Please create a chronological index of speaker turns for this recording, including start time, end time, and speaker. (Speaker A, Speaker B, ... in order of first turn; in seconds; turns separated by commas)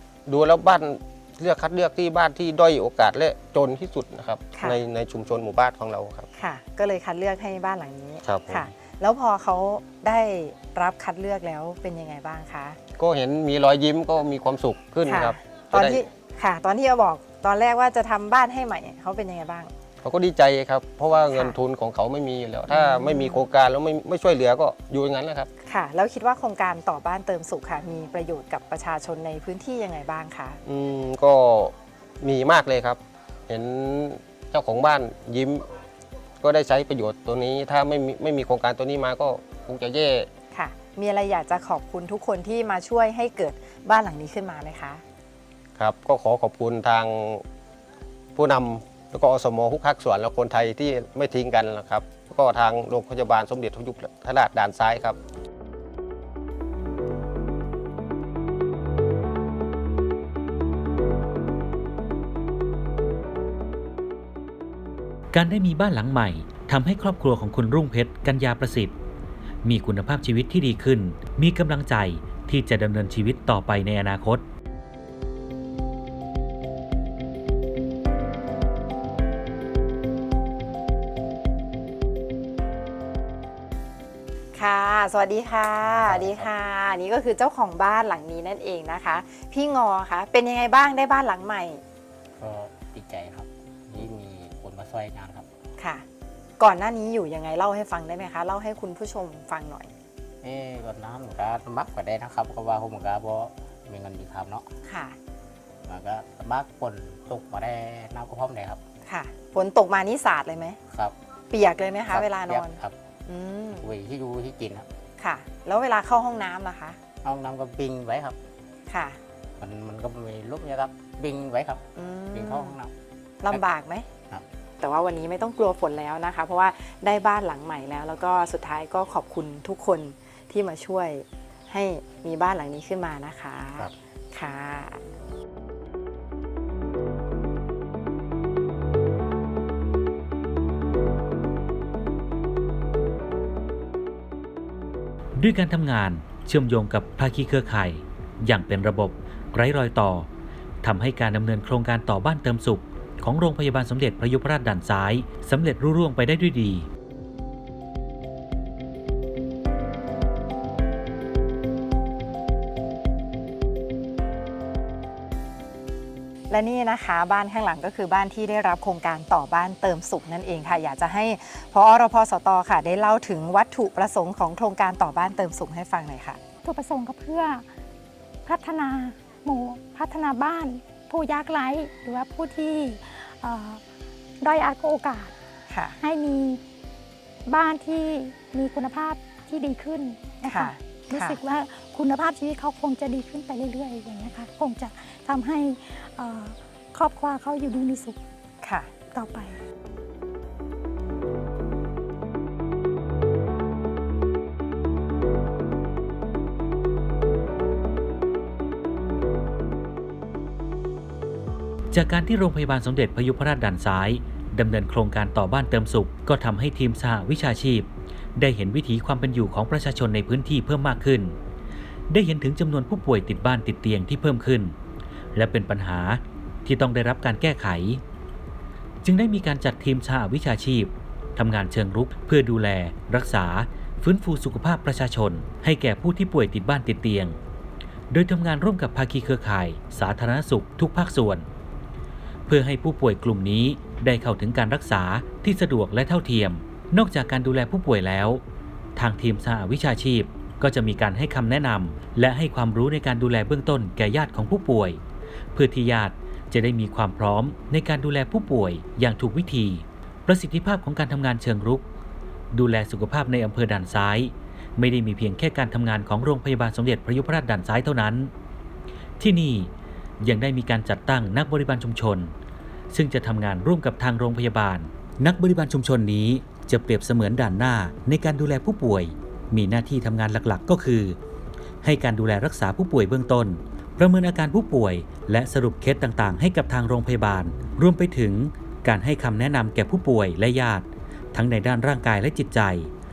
Speaker A: 0.3-6.3, Speaker B: 6.3-12.8, Speaker A: 8.2-8.7, Speaker A: 13.0-16.0, Speaker B: 15.1-19.7, Speaker A: 20.0-25.5, Speaker B: 22.7-23.4, Speaker B: 25.6-30.6, Speaker A: 30.6-35.6, Speaker A: 36.4-40.3, Speaker B: 40.5-45.0, Speaker A: 45.8-47.4, Speaker A: 48.4-55.2, Speaker C: 65.3-69.0, Speaker C: 69.6-74.4, Speaker B: 84.5-91.8, Speaker D: 85.8-86.5, Speaker D: 92.4-95.5, Speaker B: 95.8-96.0, Speaker B: 96.6-99.9, Speaker D: 100.4-104.7, Speaker B: 104.8-105.2, Speaker D: 105.9-108.8, Speaker B: 109.1-110.8, Speaker D: 110.9-111.2, Speaker B: 111.5-113.9, Speaker D: 112.1-113.0, Speaker D: 113.7-114.9, Speaker B: 115.2-117.0, Speaker D: 117.2-118.4, Speaker B: 118.9-119.2, Speaker D: 119.6-122.9, Speaker B: 122.0-122.8, Speaker B: 123.4-124.1, Speaker B: 124.8-135.0, Speaker C: 145.4-150.3, Speaker C: 150.8-156.9, Speaker B: 166.5-176.4, Speaker E: 176.6-177.6, Speaker E: 178.5-183.8, Speaker E: 184.4-185.3, Speaker B: 185.7-186.0, Speaker E: 186.0-186.6, Speaker E: 187.5-198.2, Speaker B: 190.4-191.4, Speaker B: 198.6-198.9, Speaker E: 199.1-199.6, Speaker C: 211.9-221.4, Speaker C: 222.1-224.8, Speaker C: 225.3-228.0, Speaker C: 229.0-237.4, Speaker C: 238.1-241.5, Speaker C: 242.5-248.4, Speaker C: 249.0-255.0, Speaker C: 255.5-261.9, Speaker C: 262.5-268.3, Speaker C: 269.2-272.3, Speaker C: 272.9-281.2, Speaker C: 281.8-292.9